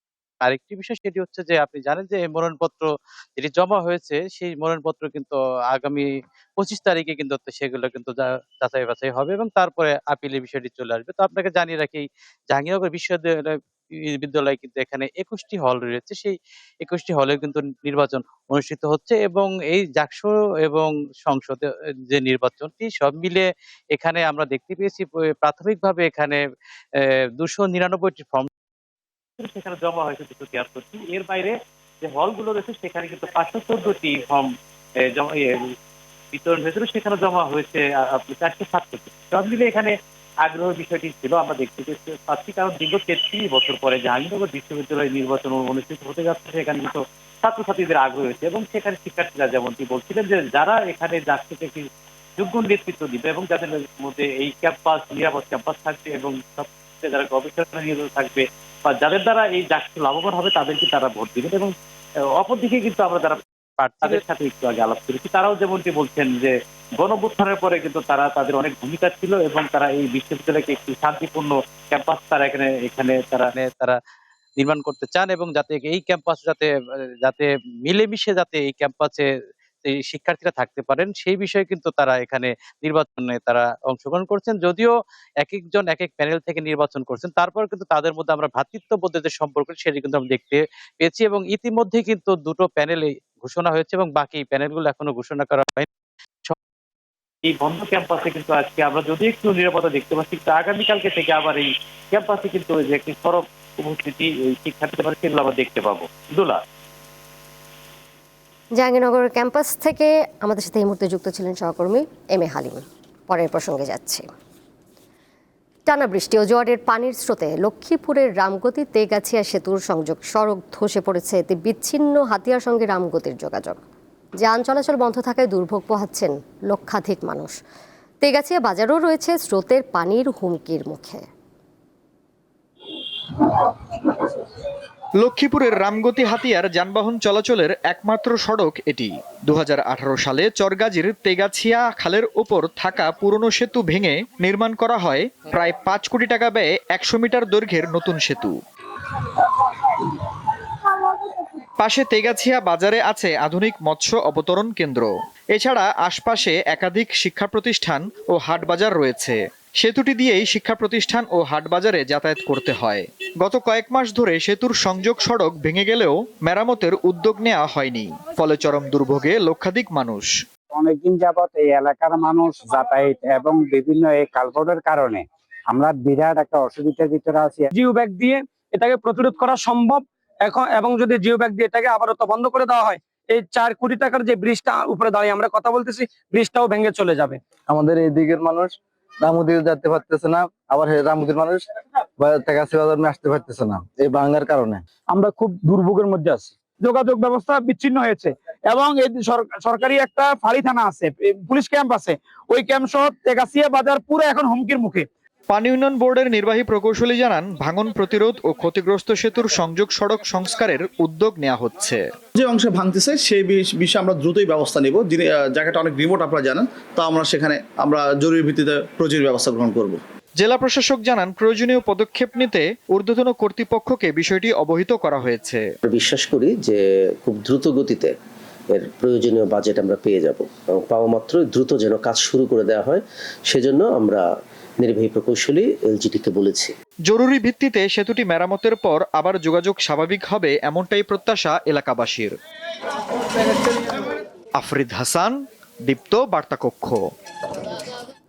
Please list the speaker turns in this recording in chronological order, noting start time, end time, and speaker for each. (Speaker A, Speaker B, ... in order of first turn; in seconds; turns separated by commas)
Speaker A: 0.4-26.4, Speaker A: 27.0-28.5, Speaker A: 29.4-34.5, Speaker A: 35.1-35.6, Speaker A: 36.3-39.9, Speaker A: 40.5-51.9, Speaker A: 52.4-61.7, Speaker A: 62.4-74.0, Speaker A: 74.6-79.3, Speaker A: 79.8-95.9, Speaker A: 97.5-106.6, Speaker B: 108.8-114.3, Speaker B: 115.9-123.8, Speaker B: 124.4-127.6, Speaker B: 128.2-131.2, Speaker C: 135.2-148.6, Speaker C: 151.8-170.3, Speaker D: 170.7-177.7, Speaker E: 177.8-187.4, Speaker F: 187.7-191.6, Speaker F: 192.2-194.8, Speaker E: 195.1-205.1, Speaker C: 205.5-212.0, Speaker G: 212.4-220.0, Speaker C: 220.4-225.6, Speaker H: 225.9-228.1, Speaker H: 228.7-236.8, Speaker C: 237.1-242.4, Speaker C: 244.6-247.0